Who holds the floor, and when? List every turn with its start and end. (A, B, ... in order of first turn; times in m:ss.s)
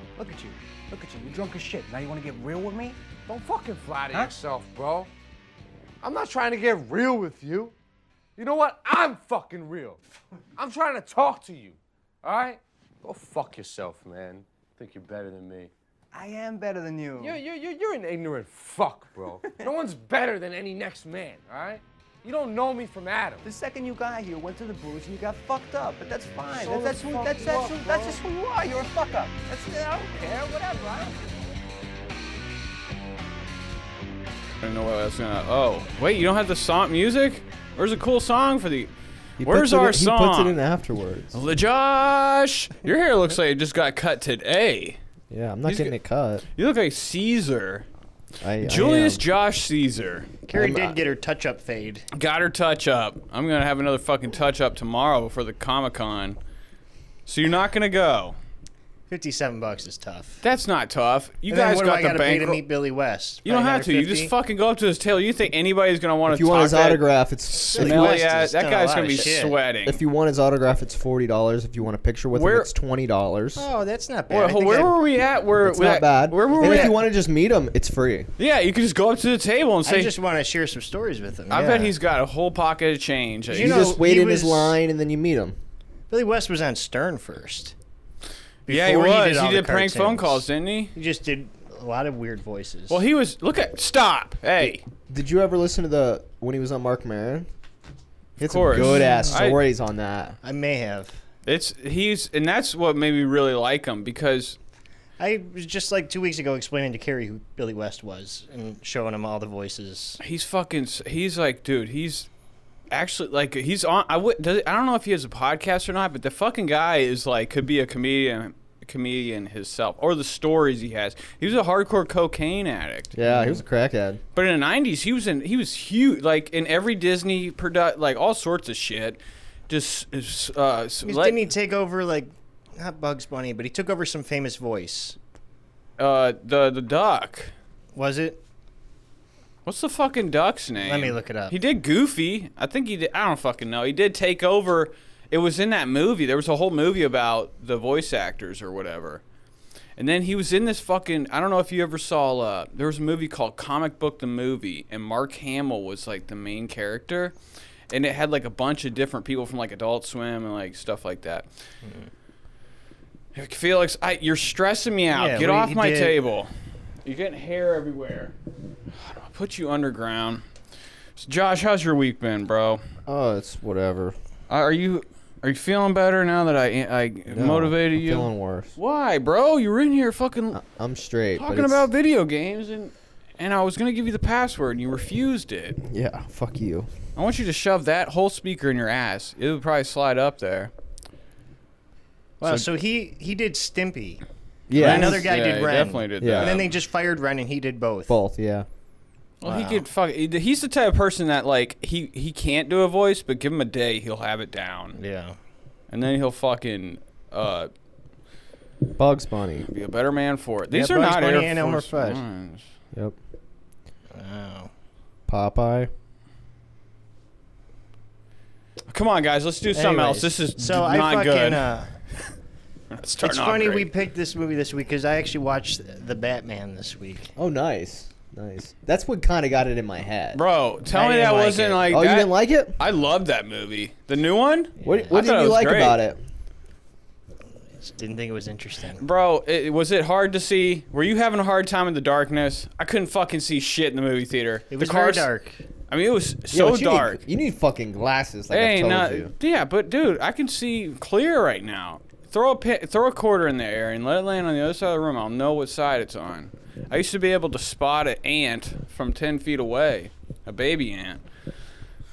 0:00.2-0:03.0 A
0:03.2-0:05.1 B
0:06.0-0:07.7 B
0:08.4-0:10.0 B
0:10.6-0:15.7 B
0:16.1-0:17.4 A
0:17.2-0:23.4 B
0:23.4-0:31.2 A
0:26.5-0:28.2 B
0:34.6-0:38.9 C
0:39.4-0:41.4 D
0:39.4-0:40.6 C
0:41.3-0:45.0 C
0:45.3-0:46.4 D
0:45.6-0:45.9 C
0:46.6-0:47.9 C
0:48.4-0:49.2 D
0:48.6-0:50.3 C
0:50.4-0:52.1 E
0:50.5-0:51.0 D
0:52.1-0:56.4 C
0:57.2-0:58.4 C
0:59.1-1:00.4 E
1:00.4-1:02.6 C
1:01.5-1:04.3 E
1:03.4-1:10.0 C
1:06.3-1:08.2 D
1:07.7-1:09.6 E
1:09.8-1:13.6 D
1:12.3-1:12.7 C
1:13.6-1:14.9 E
1:14.3-1:17.0 C
1:15.6-1:18.3 D
1:16.6-1:16.9 E
1:18.4-1:20.1 C
1:19.8-1:21.9 E
1:21.5-1:23.9 C
1:23.5-1:24.8 E
1:23.6-1:25.5 D
1:26.1-1:27.7 E
1:28.7-1:30.4 E
1:28.7-1:30.9 C
1:30.9-1:33.0 E
1:32.9-1:34.8 C
1:35.1-1:37.5 D
1:38.4-1:40.4 D
1:38.4-1:39.6 C
1:38.7-1:39.4 E
1:40.4-1:41.2 E
1:41.4-1:44.6 C
1:45.2-1:50.2 E
1:50.2-1:52.3 C
1:52.9-2:03.1 C
2:03.1-2:04.2 D
2:03.2-2:03.6 E
2:04.3-2:11.4 C
2:11.0-2:15.2 E
2:16.0-2:17.5 C
2:17.9-2:18.4 E
2:19.6-2:29.2 C
2:20.8-2:21.5 E
2:30.0-2:37.3 C
2:37.9-2:41.5 C
2:43.3-2:46.5 C
2:45.1-2:46.2 E
2:47.0-2:48.3 C
2:48.9-2:50.4 C
2:51.2-2:52.8 C
2:53.0-2:54.1 D
2:54.5-3:00.6 C
2:57.3-2:58.7 D
3:00.5-3:01.9 D
3:01.3-3:05.8 C
3:05.8-3:06.9 D
3:07.2-3:10.7 C
3:12.4-3:14.2 E
3:14.7-3:15.3 D
3:14.7-3:18.1 E
3:14.8-3:16.7 C
3:16.2-3:16.5 D
3:18.1-3:18.6 D
3:19.4-3:25.0 C
3:19.5-3:19.8 D
3:25.0-3:25.4 E
3:25.9-3:27.7 C
3:29.0-3:29.7 D
3:29.6-3:32.7 C
3:30.7-3:32.2 E
3:34.1-3:34.7 E
3:35.3-3:35.9 D
3:38.9-3:41.6 C
3:39.7-3:41.9 E
3:42.9-3:43.9 C
3:43.2-3:47.3 E
3:47.4-3:50.4 D
3:50.3-3:56.0 C
3:50.9-3:52.8 D
3:54.8-3:55.1 E
3:54.8-3:56.2 D
3:57.8-3:59.0 E
3:59.0-4:05.2 C
4:04.7-4:05.6 E
4:05.9-4:07.2 C
4:06.5-4:09.3 D
4:08.5-4:21.2 C